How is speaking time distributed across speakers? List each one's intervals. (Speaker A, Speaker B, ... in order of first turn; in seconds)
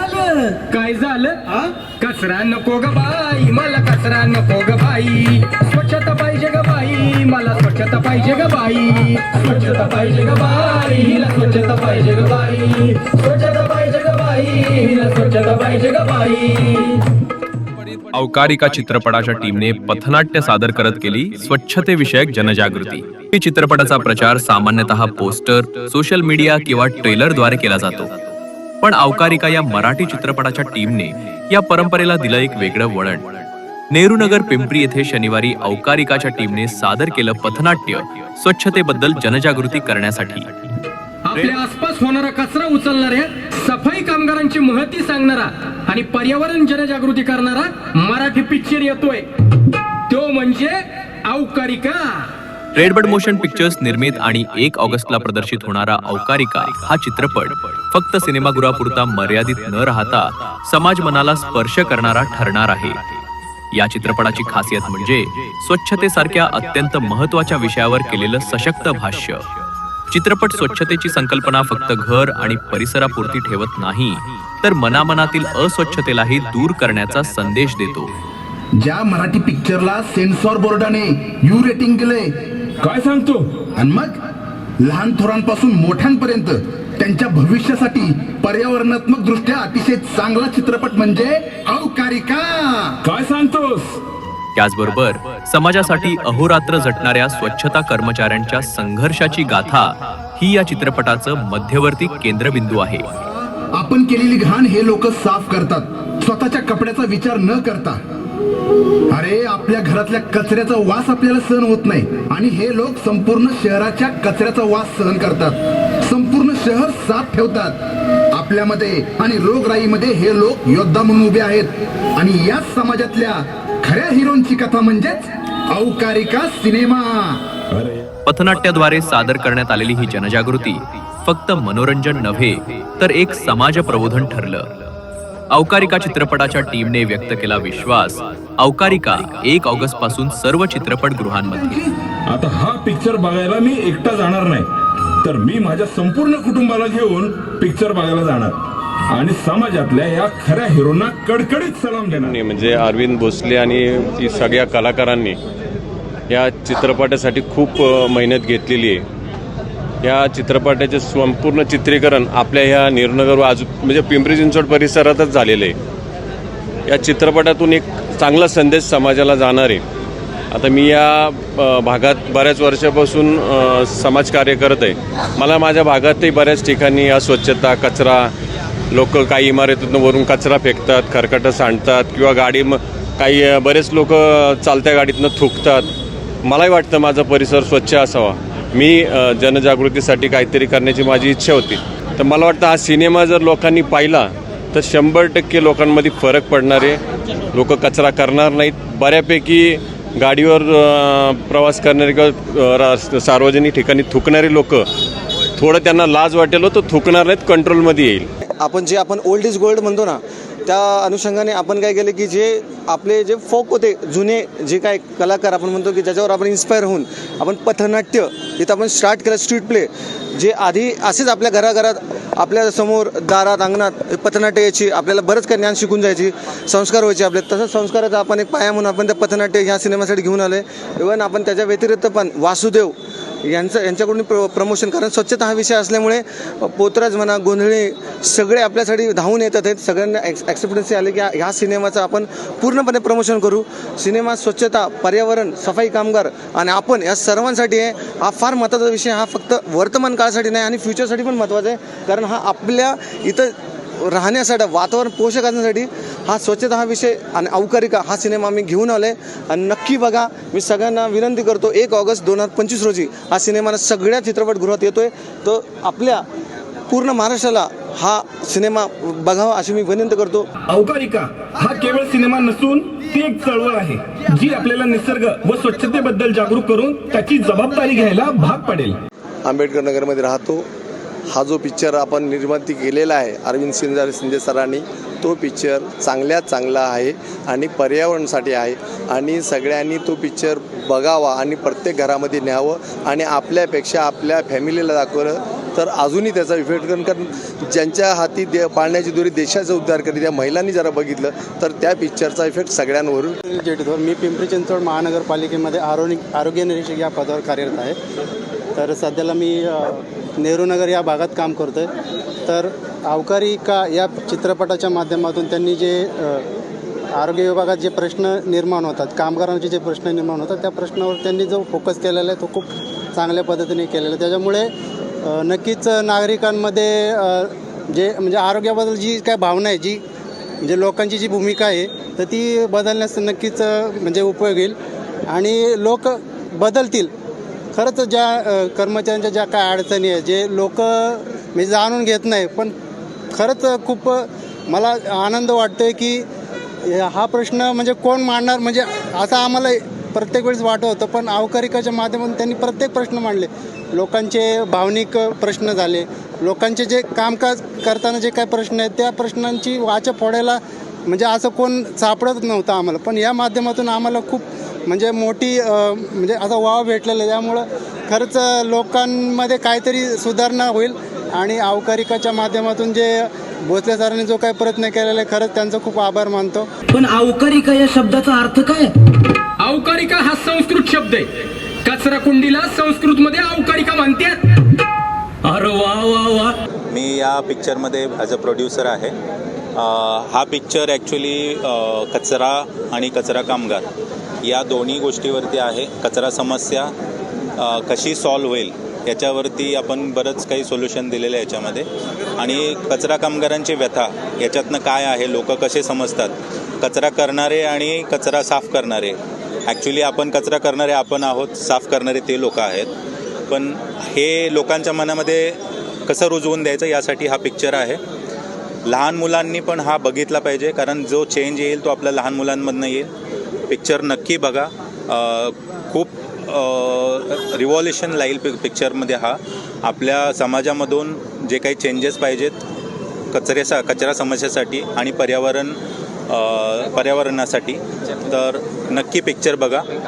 Speaker A: 0.7-17.0, 41.3-49.3, 50.1-52.3, 379.6-381.3, 381.9-384.4
Speaker B: 18.1-28.1, 28.8-40.7, 41.3-41.6, 52.8-63.1, 63.7-69.4, 70.1-78.1, 94.6-103.1, 128.3-134.7, 135.5-141.8
Speaker C: 78.8-82.3, 83.8-84.2, 84.8-93.0, 103.2-108.0, 109.1-117.8, 118.3-127.5
Speaker D: 82.8-83.4, 93.1-94.0, 127.7-128.1, 142.3-144.7, 145.2-148.6, 149.1-152.4, 270.7-278.9
Speaker E: 152.0-155.4, 156.3-159.1, 160.0-165.8, 166.9-169.8, 170.5-178.3, 178.9-185.9, 186.4-197.0, 197.5-204.8, 205.6-208.3
Speaker F: 208.5-266.3, 266.9-270.5
Speaker G: 279.4-280.6, 281.3-303.4
Speaker H: 303.4-308.0, 308.8-311.9, 312.5-316.5, 317.1-324.7, 325.2-330.0, 330.6-334.8, 335.3-337.1, 337.8-342.7, 343.3-346.3, 346.9-376.7
Speaker I: 376.9-378.9, 385.5-386.5
Speaker J: 386.9-389.1, 389.8-393.9, 394.4-396.9, 397.6-412.9, 413.5-418.0, 418.9-423.1, 423.7-432.6, 433.3-439.9